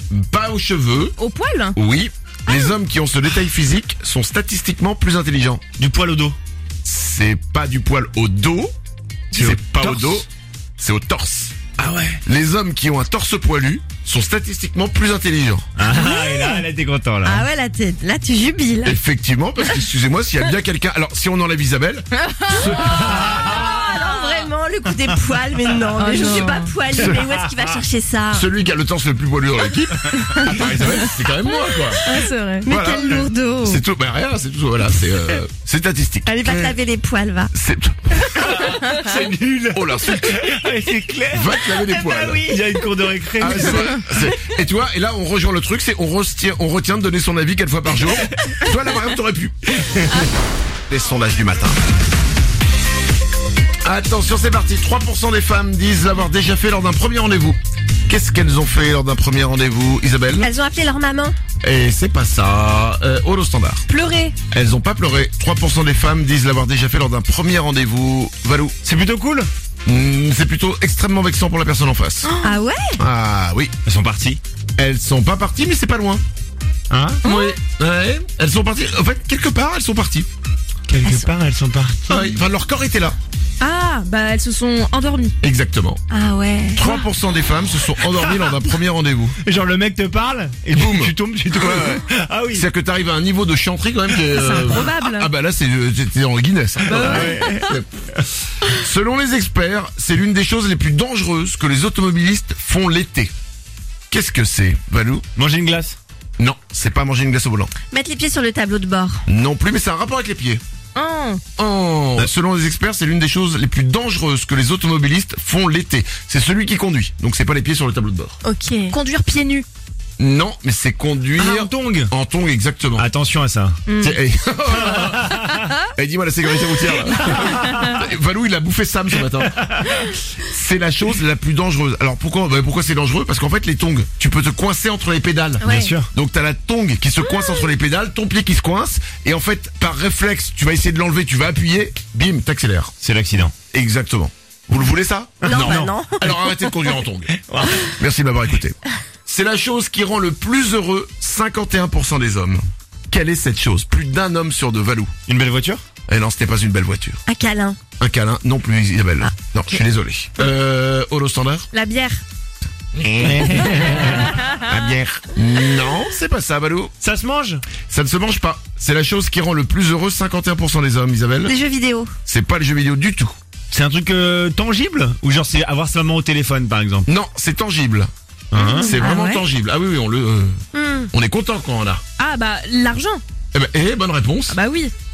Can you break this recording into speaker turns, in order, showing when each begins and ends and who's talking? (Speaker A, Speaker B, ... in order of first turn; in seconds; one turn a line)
Speaker A: 0.1-1.2
Speaker B: 1.2-1.8
Speaker A: 1.8-5.6
Speaker C: 5.8-6.4
Speaker A: 6.8-8.7
Speaker A: 9.3-10.3
Speaker C: 9.3-10.2
Speaker A: 10.8-11.7
Speaker C: 11.8-12.2
Speaker A: 12.2-15.7
Speaker C: 15.8-17.4
Speaker D: 15.9-16.6
Speaker D: 17.2-19.0
Speaker A: 18.8-23.4
Speaker C: 23.0-23.8
Speaker D: 23.3-28.5
Speaker B: 26.0-26.7
Speaker A: 27.0-27.2
Speaker A: 28.3-32.1
Speaker C: 30.1-30.5
Speaker B: 31.8-32.7
Speaker D: 32.6-33.8
Speaker A: 32.7-36.7
Speaker D: 36.2-37.5
Speaker A: 37.5-38.5
Speaker C: 38.3-41.7
Speaker A: 39.7-40.5
Speaker A: 41.3-42.4
Speaker D: 41.9-42.6
Speaker C: 42.3-44.3
Speaker A: 43.4-49.6
Speaker A: 50.9-51.8
Speaker A: 53.8-60.5
Speaker D: 60.4-61.4
Speaker A: 61.6-63.8
Speaker B: 63.9-64.3
Speaker A: 64.5-68.8
Speaker C: 68.8-69.5
Speaker A: 69.9-72.3
Speaker B: 72.2-72.6
Speaker D: 72.4-73.0
Speaker A: 73.0-73.7
Speaker C: 73.8-74.4
Speaker A: 74.8-76.2
Speaker C: 76.9-77.2
Speaker A: 77.2-80.3
Speaker D: 77.3-77.5
Speaker C: 80.9-82.4
Speaker A: 82.1-83.2
Speaker B: 83.6-85.3
Speaker A: 85.4-86.0
Speaker D: 86.1-87.0
Speaker A: 86.7-89.4
Speaker C: 88.2-88.5
Speaker C: 89.4-92.7
Speaker A: 90.7-97.9
Speaker B: 94.3-95.3
Speaker B: 96.9-97.5
Speaker C: 96.9-97.8
Speaker A: 98.7-103.3
Speaker A: 104.1-105.3
Speaker C: 105.4-106.0
Speaker A: 106.4-107.7
Speaker D: 107.9-109.2
Speaker A: 109.3-110.6
Speaker B: 111.0-111.4
Speaker A: 111.6-118.4
Speaker D: 118.4-119.0
Speaker B: 118.9-119.7
Speaker A: 120.2-123.1
Speaker C: 121.4-122.1
Speaker C: 123.0-123.8
Speaker B: 123.9-124.2
Speaker A: 124.0-142.9
Speaker C: 127.1-128.0
Speaker D: 135.6-135.9
Speaker C: 135.6-136.1
Speaker C: 143.0-143.5
Speaker A: 143.7-147.3
Speaker C: 145.4-146.0
Speaker D: 145.4-146.6
Speaker C: 147.4-147.9
Speaker A: 147.9-155.1
Speaker C: 155.3-155.8
Speaker A: 156.1-157.2
Speaker D: 157.3-157.8
Speaker A: 158.0-161.7
Speaker D: 161.7-162.2
Speaker A: 162.9-166.9
Speaker C: 163.2-164.4
Speaker C: 167.0-167.6
Speaker A: 167.9-171.6
Speaker D: 171.4-172.1
Speaker A: 172.3-173.3
Speaker C: 173.7-177.1
Speaker A: 177.1-178.1
Speaker C: 178.5-179.0
Speaker D: 178.7-179.4
Speaker A: 178.7-180.6
Speaker D: 180.7-181.1
Speaker A: 181.1-182.0
Speaker B: 182.2-183.2
Speaker A: 183.5-184.6
Speaker B: 184.5-184.9